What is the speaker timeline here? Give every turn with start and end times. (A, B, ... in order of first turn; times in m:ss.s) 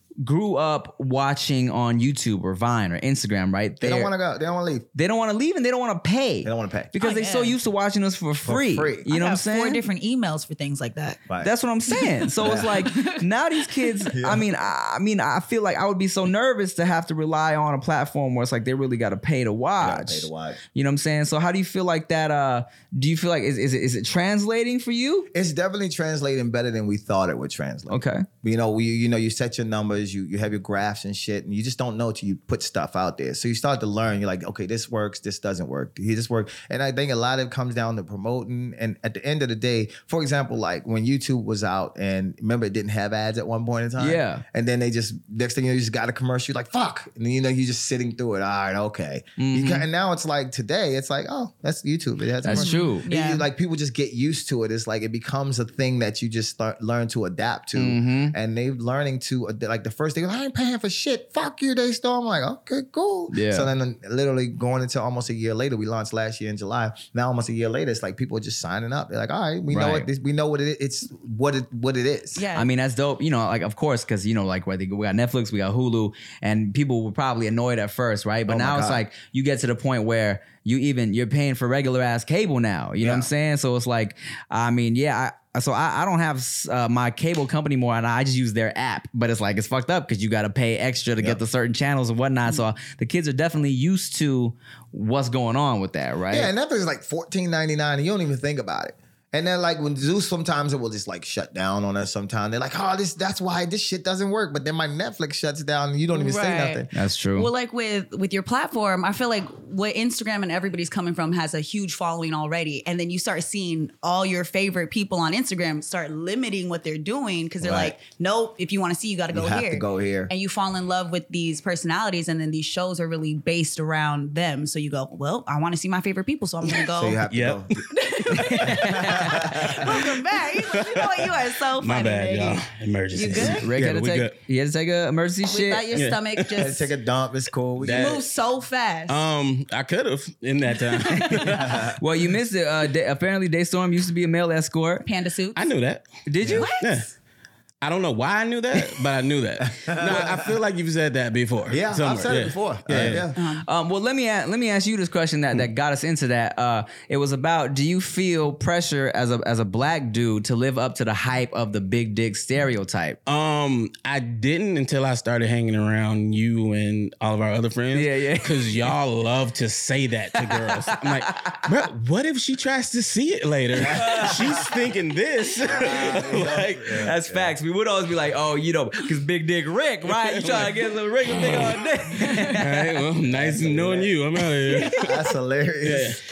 0:00.2-0:04.1 A
0:03.8-0:04.8 B
0:04.9-0:09.8 A
0:06.4-0:06.9 B
0:07.0-0:07.6 C
0:08.4-0:09.0 B
0:09.1-0:11.2 C
0:11.4-0:25.3 A
0:11.9-0:14.0 C
0:12.4-0:12.8 B
0:14.1-0:14.5 B
0:19.8-0:20.6 B
0:25.3-1:12.4 B
0:27.9-0:28.2 A
0:44.0-0:44.4 A
0:49.4-0:49.9 A
0:52.4-0:53.0 A
0:52.4-0:53.4 C
0:57.7-0:58.3 A
1:03.3-1:03.7 A
1:09.7-1:10.1 A
1:12.4-1:12.7 C
1:12.5-1:36.5 A
1:18.5-1:19.0 B
1:23.0-1:23.3 B
1:36.3-1:46.9 B
1:46.1-2:07.2 C
1:46.9-1:47.5 A
1:57.6-1:57.9 B
1:59.3-2:00.3 B
2:06.9-2:07.8 B
2:07.3-2:14.3 D
2:07.9-2:13.7 C
2:08.4-2:09.1 A
2:08.8-2:09.8 B
2:13.5-2:15.9 A
2:15.4-2:16.9 C
2:15.9-2:16.7 D
2:16.5-2:18.2 B
2:17.8-2:18.2 D
2:17.9-2:19.2 C
2:19.1-2:21.9 D
2:21.0-2:21.6 C
2:21.4-2:25.0 A
2:21.5-2:22.0 B
2:25.0-2:25.7 C
2:25.5-2:27.1 D
2:26.2-2:26.7 A
2:26.5-2:27.1 C
2:27.8-2:33.2 D
2:29.7-2:30.5 B
2:31.7-2:33.4 B
2:33.0-2:43.2 A
2:33.3-2:33.7 C
2:43.2-2:57.1 D
2:47.9-2:48.7 A
2:50.3-2:51.6 A
2:53.8-2:54.6 B
2:53.9-2:54.7 A
2:55.7-2:57.5 B
2:55.8-3:03.1 A
3:00.1-3:05.2 D
3:03.2-3:04.1 B
3:04.9-3:06.2 B
3:05.8-3:06.2 D